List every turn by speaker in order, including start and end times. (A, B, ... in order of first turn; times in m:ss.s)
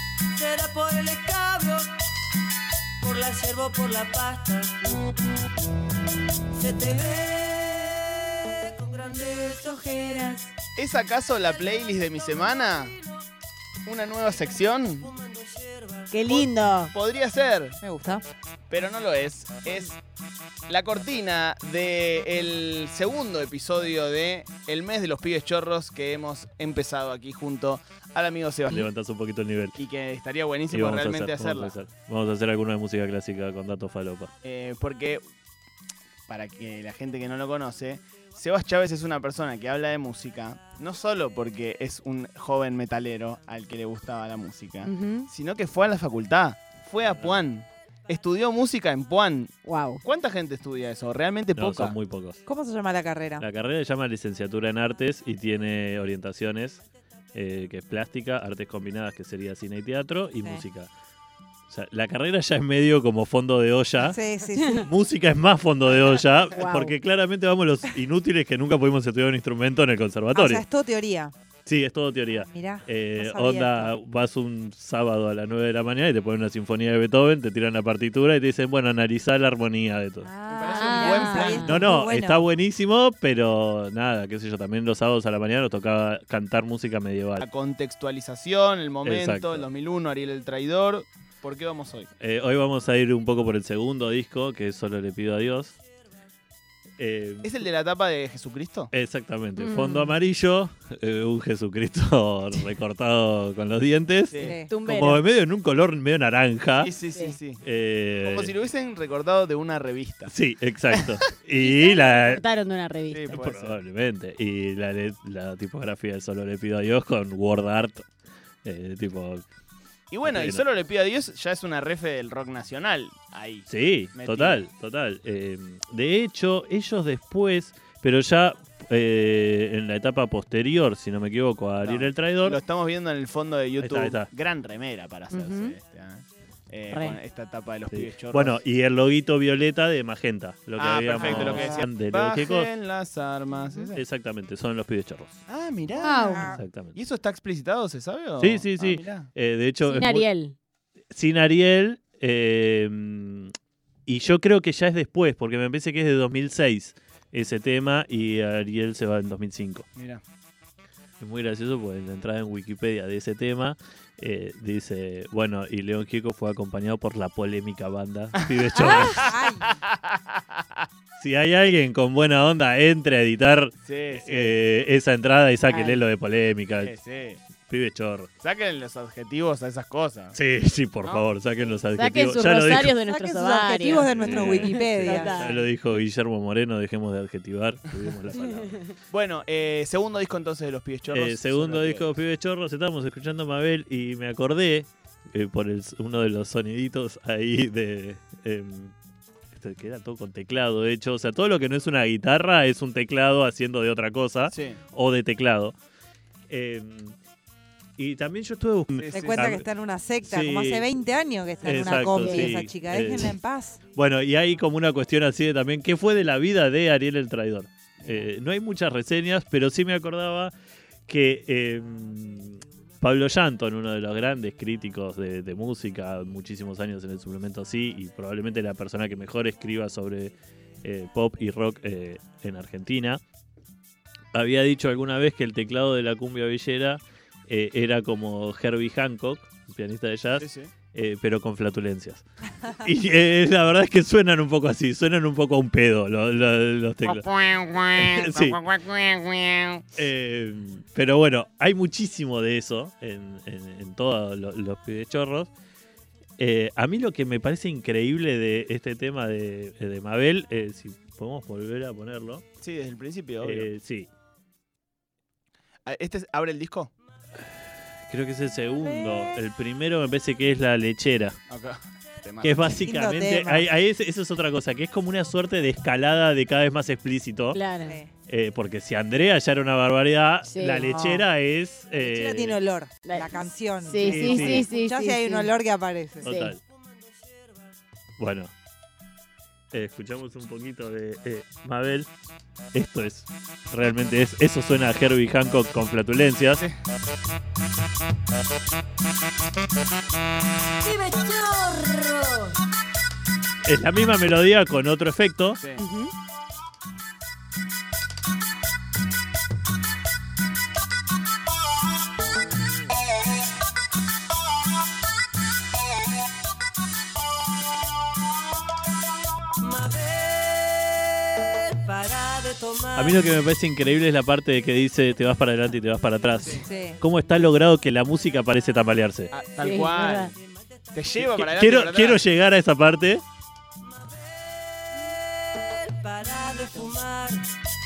0:00.4-0:01.9 A
0:03.0-0:05.0 A
0:06.5-0:10.5 A
0:10.8-0:13.0 B
0:13.8-0:15.1 B
0:15.1-0:16.2 A
0:16.1-0:16.9 C
0:16.3-0:17.8 B
0:17.8-0:18.2 D
0:18.7-0:20.0 B
0:20.7-0:28.9 B
0:28.7-0:29.8 E
0:29.8-0:31.7 B
0:30.7-0:34.3 E
0:34.4-0:35.2 B
0:36.3-0:52.0 B
0:44.9-0:45.3 C
0:47.1-0:47.4 E
0:49.6-0:50.0 C
0:51.6-0:52.4 E
0:52.5-0:53.4 D
0:53.4-0:56.8 E
0:57.3-1:00.9 E
1:00.4-1:00.6 D
1:01.7-1:04.2 E
1:04.0-1:04.9 D
1:04.8-1:10.6 E
1:06.5-1:06.9 C
1:10.3-1:11.3 D
1:11.7-1:20.3 E
1:12.5-1:14.0 D
1:20.3-1:21.8 C
1:20.5-1:21.8 B
1:20.7-1:22.4 D
1:21.6-1:27.4 E
1:27.4-1:32.1 B
1:29.0-1:29.7 E
1:32.2-1:35.8 E
1:37.0-1:37.6 E
1:37.4-1:38.9 B
1:38.9-1:46.9 E
1:39.6-1:40.2 C
1:44.3-1:44.6 B
1:44.4-1:44.7 D
1:44.7-1:45.2 C
1:46.8-1:47.6 B
1:47.1-1:47.4 C
1:47.6-1:48.5 E
1:48.2-1:50.3 B
1:50.3-1:52.4 E
1:51.6-1:53.4 C
1:53.1-1:53.8 B
1:53.3-1:58.1 E
1:58.6-1:59.4 E
2:00.1-2:04.6 B
2:00.2-2:00.6 E
2:03.7-2:12.6 E
2:11.8-2:18.6 B
2:13.8-2:14.3 E
2:16.9-2:17.2 C
2:17.9-2:22.7 E
2:20.8-2:24.0 B
2:21.2-2:21.8 D
2:23.9-2:25.4 E
2:25.5-2:29.3 B
2:26.0-2:26.6 D
2:26.0-2:26.4 C
2:26.5-2:27.0 E
2:28.4-2:30.3 E
2:29.8-2:30.6 C
2:31.1-2:33.5 E
2:34.1-2:39.9 E
2:40.0-2:40.2 B
2:41.2-2:49.3 E
2:48.7-2:50.8 B
2:48.8-2:49.7 D
2:51.2-2:56.9 E
2:53.8-2:54.5 B
2:55.7-2:56.0 C
2:56.8-2:57.4 B
2:57.7-2:58.3 E
2:58.4-3:00.4 B
3:00.3-3:03.0 E
3:01.9-3:05.7 C
3:03.1-3:05.4 D
3:04.1-3:08.8 E
3:04.2-3:04.5 B
3:09.1-3:12.1 B
3:11.1-3:18.9 E
3:19.5-3:25.8 E
3:24.5-3:24.8 B
3:26.5-3:27.2 E
3:28.0-3:29.7 E
3:29.0-3:29.5 B
3:29.1-3:33.8 D
3:30.2-3:30.9 E
3:31.6-3:33.4 E
3:34.0-3:40.5 E
3:38.0-3:38.3 D
3:41.1-3:53.2 E
3:54.3-4:07.3 E
4:00.4-4:00.7 B
4:07.0-4:09.8 B
4:08.0-4:08.6 E
4:10.0-4:15.5 E
4:16.4-4:22.4 E
4:22.6-4:23.7 B
4:23.4-4:24.1 E
4:25.9-4:26.9 B
4:28.1-4:31.4 E
4:28.8-4:29.3 D
4:31.5-4:32.7 B
4:32.4-4:37.6 E
4:32.6-4:33.7 D
4:37.5-4:38.0 C
4:37.8-4:38.1 D
4:38.3-4:42.6 E
4:40.4-4:40.9 C
4:40.8-4:41.3 D
4:42.0-4:46.5 D
4:43.0-4:45.5 C
4:44.0-4:44.7 E
4:46.2-4:46.6 E
4:46.2-4:46.6 C
4:48.2-4:48.5 E
4:49.7-4:52.1 E
4:52.7-4:56.6 E
5:00.8-5:02.6 A
5:03.6-5:05.6 E
5:05.6-5:05.8 B
5:05.8-5:06.1 C
5:19.9-5:20.6 A
5:21.5-5:23.1 A
5:23.0-5:29.3 E
5:26.6-5:27.0 D
5:29.3-5:30.4 B
5:29.6-5:30.3 C
5:30.9-5:32.2 B
5:31.2-5:33.2 E
5:35.5-5:37.5 A